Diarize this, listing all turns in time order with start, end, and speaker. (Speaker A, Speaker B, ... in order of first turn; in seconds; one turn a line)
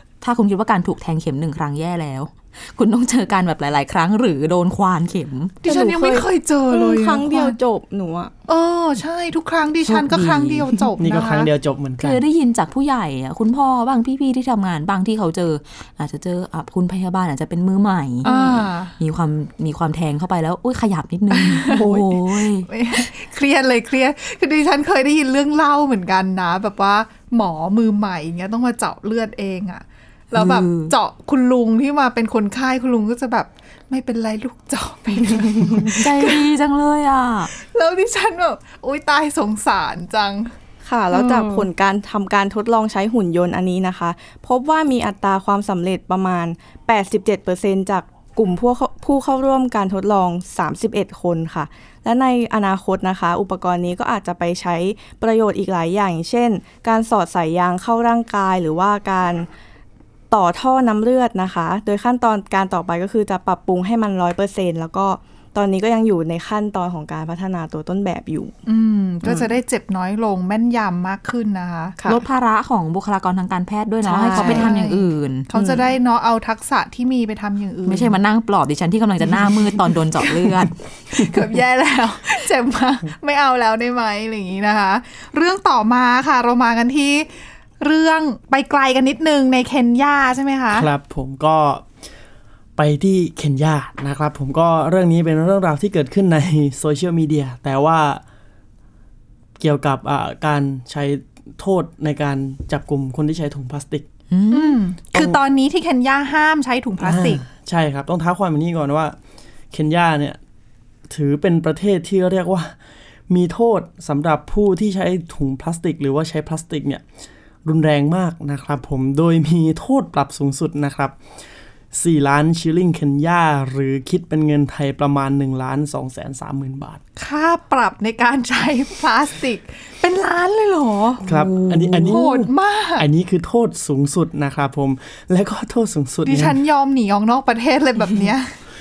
Speaker A: 0.2-5.6
Speaker B: 5.6-7.5
Speaker C: 5.6-8.3
Speaker B: 8.5-11.5
Speaker A: 9.8-10.8
Speaker D: 11.0-12.2
Speaker A: 12.0-18.4
Speaker B: 18.2-18.9
Speaker A: 18.9-22.7
Speaker B: 21.3-36.4
Speaker A: 30.3-30.9
Speaker A: 35.5-37.5
Speaker B: 37.5-40.5
Speaker C: 40.8-59.5
Speaker B: 41.1-41.6
Speaker C: 60.3-68.5
Speaker B: 68.7-72.0
Speaker A: 72.0-75.6
Speaker B: 74.0-78.1
Speaker C: 74.3-74.7
Speaker A: 77.8-80.7
Speaker B: 81.1-90.9
Speaker D: 90.7-91.8
Speaker D: 92.8-98.2
Speaker D: 99.6-104.1
Speaker A: 104.3-104.8
Speaker B: 104.5-107.4
Speaker D: 107.0-109.2
Speaker D: 109.7-110.4
Speaker D: 111.1-112.8
Speaker D: 113.3-117.0
Speaker D: 117.6-121.2
Speaker D: 121.9-127.0
Speaker B: 127.2-131.2
Speaker D: 131.2-136.6
Speaker A: 131.2-132.1
Speaker B: 132.1-133.1
Speaker B: 136.2-138.5